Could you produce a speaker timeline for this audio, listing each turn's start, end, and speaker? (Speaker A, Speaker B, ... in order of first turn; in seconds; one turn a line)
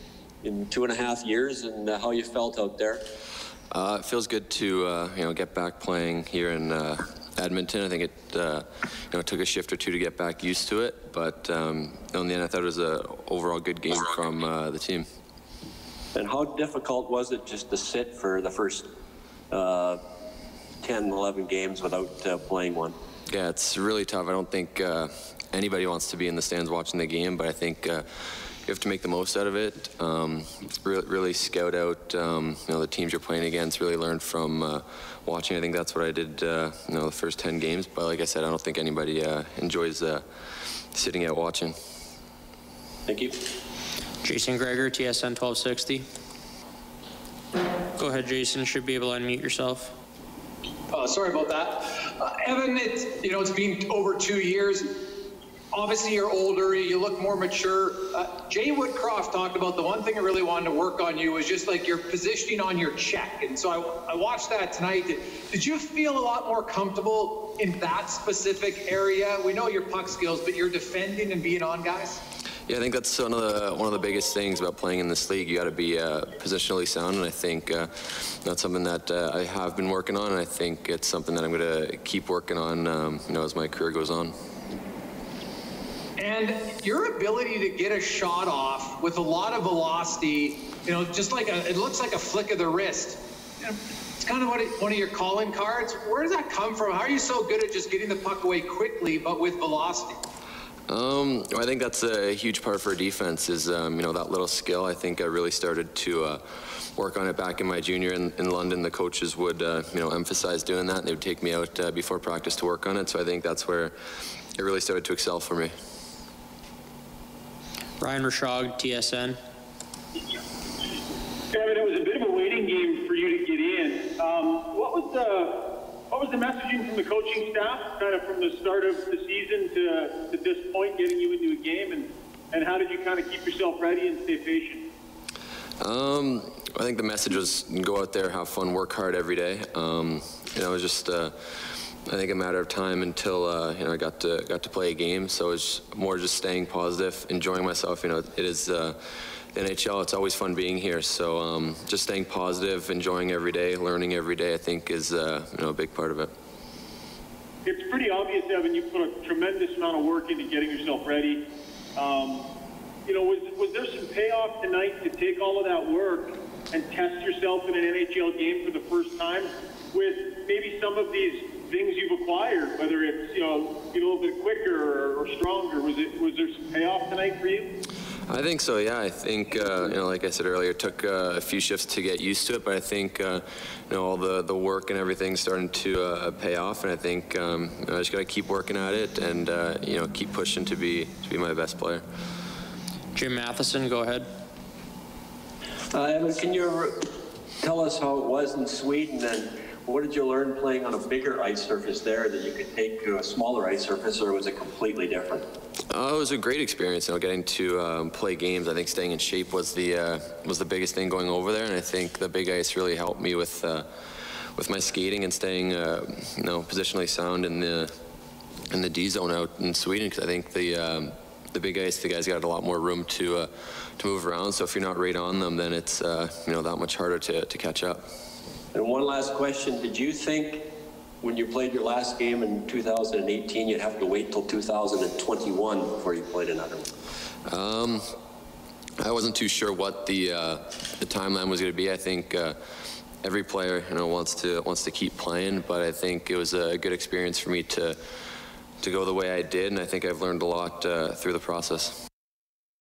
Speaker A: 0.4-3.0
Speaker B: 3.7-15.1
Speaker A: 16.1-18.9
Speaker A: 19.5-20.0
Speaker A: 20.8-22.9
Speaker B: 23.3-41.8
Speaker A: 43.1-43.4
Speaker C: 44.2-46.0
Speaker C: 48.0-49.9
Speaker D: 50.9-55.0
Speaker D: 55.7-72.2
Speaker B: 72.7-84.3
Speaker D: 86.2-100.2
Speaker B: 100.9-114.0
Speaker B: 114.6-115.8
Speaker C: 118.0-119.4
Speaker E: 121.5-134.9
Speaker B: 135.8-156.3
Speaker E: 157.7-162.5
Speaker E: 163.1-177.7
Speaker B: 178.3-192.0
Speaker C: 193.1-194.3
Speaker A: 195.9-197.0
Speaker A: 197.6-205.5
Speaker B: 205.9-217.9
Speaker B: 218.7-228.1
Speaker A: 228.7-230.7
Speaker A: 231.2-236.9
Speaker B: 237.5-238.2
Speaker B: 239.0-248.0
Speaker B: 248.8-252.0